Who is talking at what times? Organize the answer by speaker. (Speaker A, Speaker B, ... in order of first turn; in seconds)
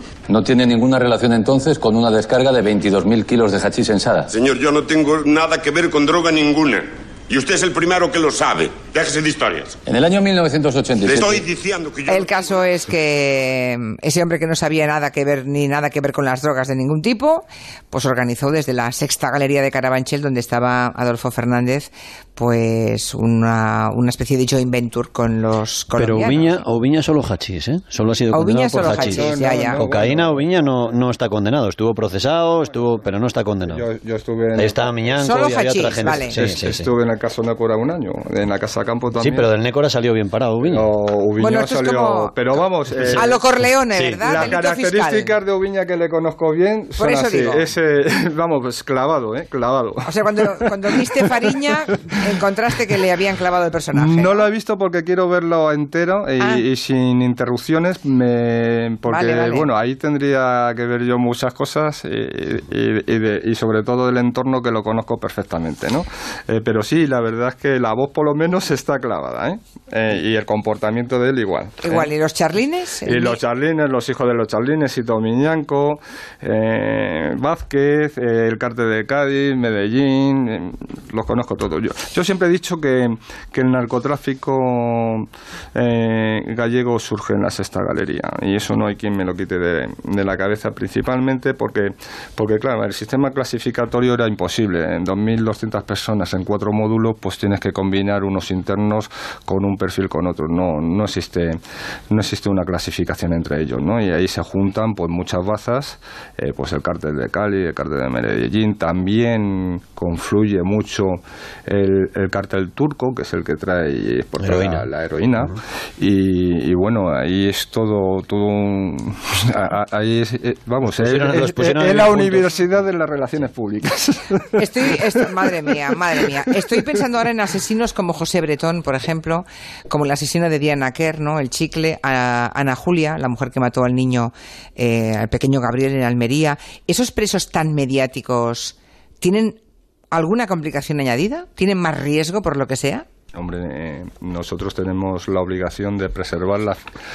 Speaker A: 0.3-4.3, 9.8-11.4
Speaker B: 4.3-9.8, 11.0-12.6
Speaker C: 12.1-26.6, 28.3-29.8, 35.2-36.4, 41.4-42.3, 43.1-45.3, 47.0-47.7, 50.0-54.5, 59.1-59.7, 71.8-73.4, 124.6-139.6, 140.1-143.0
Speaker D: 25.9-33.8, 34.5-36.9, 39.2-40.9, 43.9-44.4, 114.4-114.9, 121.0-122.6
Speaker E: 28.8-31.0, 32.6-33.0, 33.6-35.1, 36.1-39.5, 40.6-43.4, 44.2-52.2, 53.9-72.1, 73.0-127.0, 143.3-146.8